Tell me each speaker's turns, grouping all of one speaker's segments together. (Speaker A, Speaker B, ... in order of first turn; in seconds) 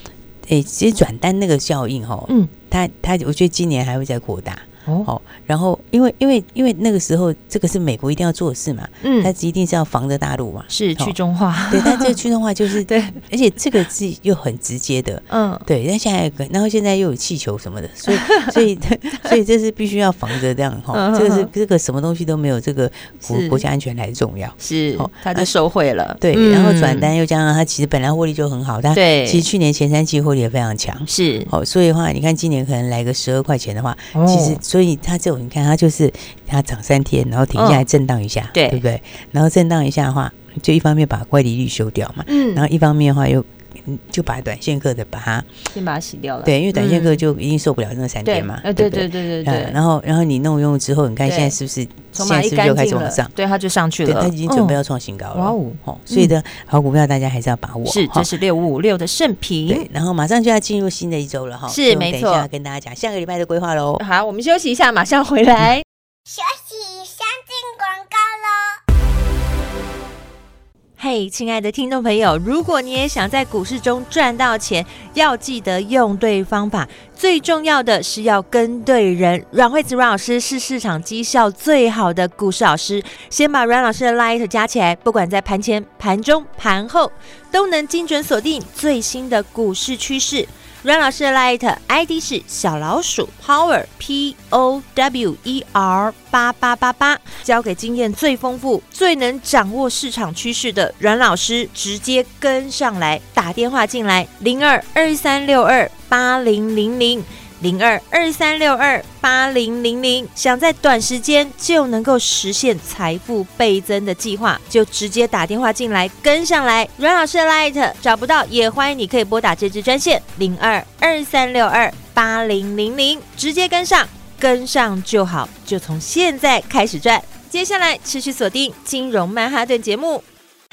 Speaker A: 0.5-11.2, 11.7-25.5, 26.2-45.5, 46.4-53.3, 54.0-58.3, 59.7-64.0
Speaker B: 9.0-9.3, 10.7-12.2, 12.8-13.2, 15.3-15.7, 18.1-18.6, 20.9-21.5, 23.2-23.6, 24.6-27.1, 28.9-29.4, 31.1-31.5, 34.1-34.6, 37.5-37.8, 38.5-38.8, 42.3-42.6, 45.7-47.2, 48.2-49.8, 51.2-51.5, 52.1-54.8, 55.3-56.3, 57.9-59.9, 61.7-62.5, 64.0-65.8, 71.0-130.2
Speaker C: 66.3-68.8